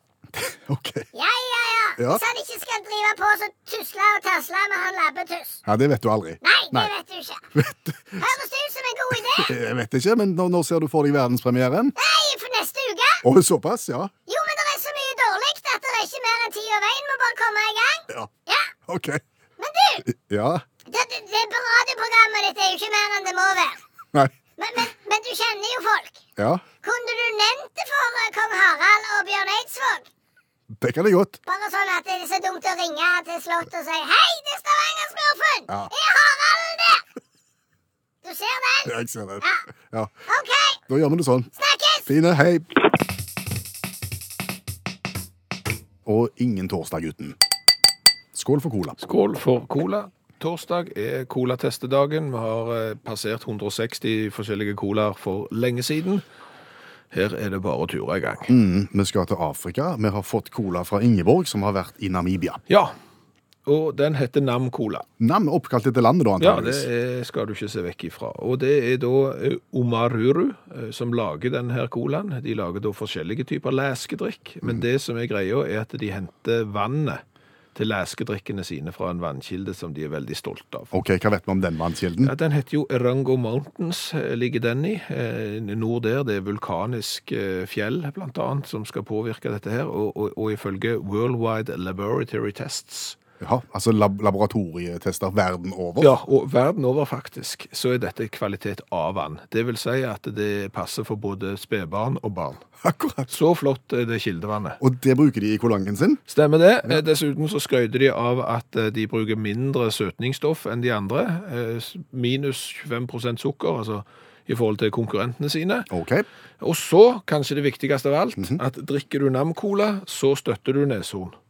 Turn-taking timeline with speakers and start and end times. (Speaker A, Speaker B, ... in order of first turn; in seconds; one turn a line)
Speaker A: 0.3-1.1
Speaker B: 1.1-5.6
Speaker A: 2.0-2.2
Speaker A: 5.7-6.9
Speaker B: 6.4-7.4
Speaker A: 7.5-8.3
Speaker B: 8.2-9.5
Speaker A: 9.3-11.9
Speaker B: 12.0-13.2
Speaker A: 13.2-14.1
Speaker B: 14.3-18.7
Speaker A: 18.9-19.2
Speaker B: 19.6-20.1
Speaker A: 20.1-20.6
Speaker B: 20.9-23.8
Speaker B: 24.6-26.2
Speaker A: 26.4-26.6
Speaker B: 26.8-30.1
Speaker A: 30.8-31.4
Speaker B: 31.4-37.0
Speaker B: 38.2-39.6
Speaker A: 38.8-40.1
Speaker B: 40.3-40.8
Speaker A: 40.9-41.5
Speaker B: 41.5-42.1
Speaker A: 42.0-42.8
Speaker A: 46.0-47.4
Speaker A: 48.3-49.0
Speaker C: 49.0-56.2
Speaker C: 57.1-58.5
Speaker A: 58.5-62.6
Speaker C: 62.7-62.9
Speaker C: 63.6-65.0
Speaker A: 65.2-66.9
Speaker C: 66.4-77.2
Speaker C: 77.7-80.9
Speaker A: 80.9-82.3
Speaker C: 82.2-93.2
Speaker A: 93.4-96.1
Speaker C: 96.0-102.6
Speaker A: 102.8-103.3
Speaker C: 103.3-104.8
Speaker A: 104.8-106.2
Speaker C: 106.3-115.9
Speaker A: 115.9-116.2
Speaker C: 116.6-121.4